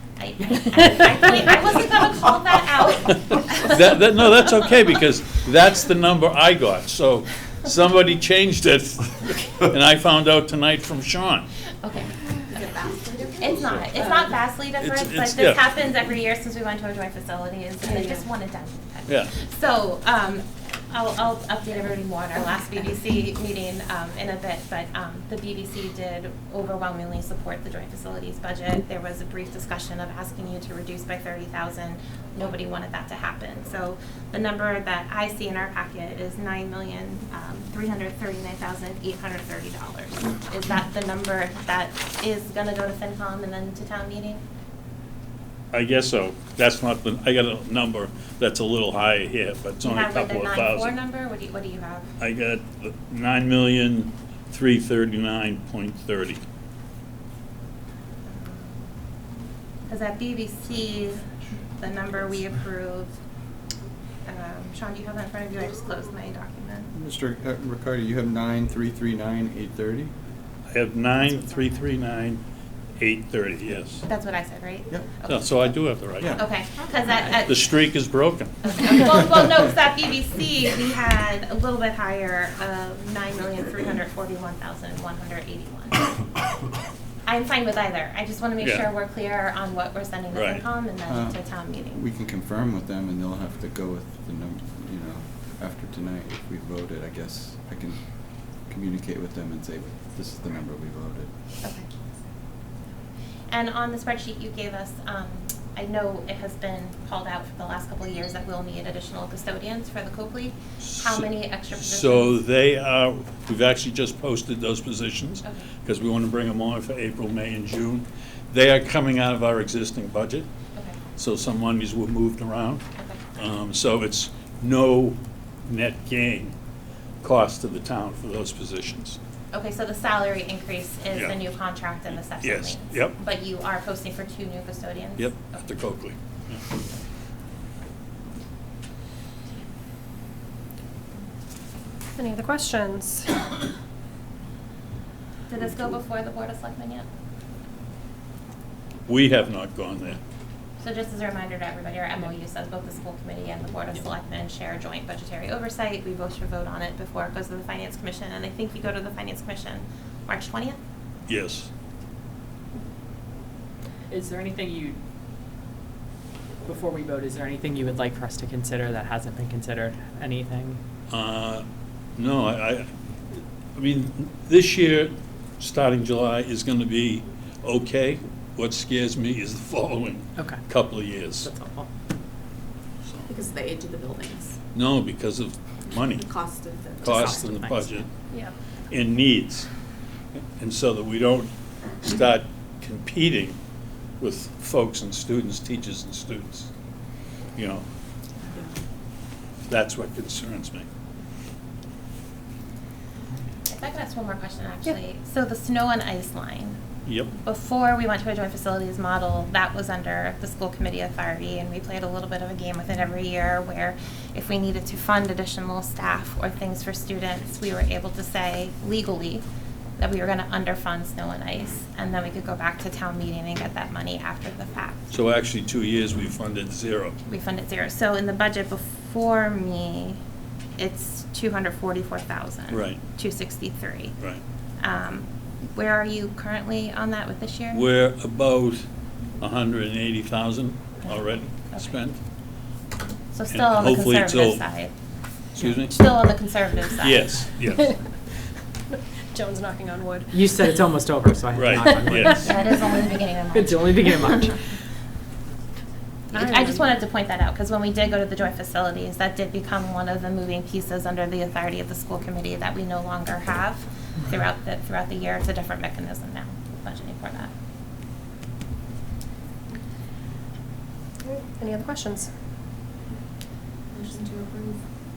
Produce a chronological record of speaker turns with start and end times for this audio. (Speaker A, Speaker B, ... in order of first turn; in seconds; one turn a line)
Speaker A: 0.2-3.9
Speaker B: 3.6-11.5
Speaker A: 11.8-12.7
Speaker C: 12.4-14.3
Speaker A: 13.4-44.4
Speaker B: 14.8-15.7
Speaker C: 18.0-18.2
Speaker B: 45.7-51.0
Speaker A: 49.8-52.1
Speaker B: 52.2-56.4
Speaker A: 58.3-58.9
Speaker A: 59.9-63.2
Speaker A: 64.3-66.9
Speaker D: 66.9-70.1
Speaker B: 70.7-72.4
Speaker B: 73.0-74.0
Speaker A: 74.1-75.8
Speaker B: 75.3-76.4
Speaker D: 76.2-76.4
Speaker A: 76.3-77.7
Speaker B: 77.2-78.6
Speaker A: 78.6-86.1
Speaker A: 87.2-92.0
Speaker B: 88.6-88.9
Speaker B: 90.3-90.7
Speaker D: 91.1-101.3
Speaker A: 101.6-101.9
Speaker A: 103.5-112.4
Speaker B: 110.8-120.5
Speaker B: 121.2-126.5
Speaker A: 123.0-123.2
Speaker B: 127.2-129.2
Speaker A: 129.5-135.6
Speaker B: 132.1-133.2
Speaker B: 135.2-136.6
Speaker E: 142.2-143.3
Speaker A: 145.5-147.1
Speaker B: 149.1-150.2
Speaker A: 150.8-160.8
Speaker B: 161.3-161.7
Speaker F: 164.1-165.0
Speaker F: 166.7-170.8
Speaker B: 171.1-171.7
Speaker B: 172.2-181.5
Speaker F: 181.4-181.9
Speaker B: 183.1-183.3
Speaker C: 183.3-184.5
Speaker B: 184.7-186.4
Speaker C: 186.0-187.2
Speaker B: 187.0-188.1
Speaker F: 187.0-188.0
Speaker B: 188.9-189.7
Speaker B: 190.6-193.6
Speaker B: 194.2-196.7
Speaker B: 197.6-197.8
Speaker B: 199.7-200.9
Speaker A: 203.7-206.8
Speaker B: 207.1-207.3
Speaker A: 207.3-219.4
Speaker A: 220.0-225.2
Speaker B: 225.1-227.2
Speaker A: 227.3-230.2
Speaker A: 230.8-234.2
Speaker B: 232.7-233.0
Speaker A: 234.8-237.9
Speaker B: 237.7-238.9
Speaker B: 239.4-242.2
Speaker A: 241.1-242.0
Speaker A: 243.3-245.0
Speaker B: 243.5-244.7
Speaker B: 245.6-246.3
Speaker A: 245.6-247.4
Speaker B: 247.0-247.9
Speaker E: 249.3-250.7
Speaker F: 250.3-252.8
Speaker B: 251.5-252.5
Speaker E: 251.9-252.4
Speaker A: 252.4-254.4
Speaker F: 253.5-254.6
Speaker A: 256.3-267.5
Speaker E: 256.3-256.9
Speaker E: 271.2-272.3
Speaker C: 273.9-274.8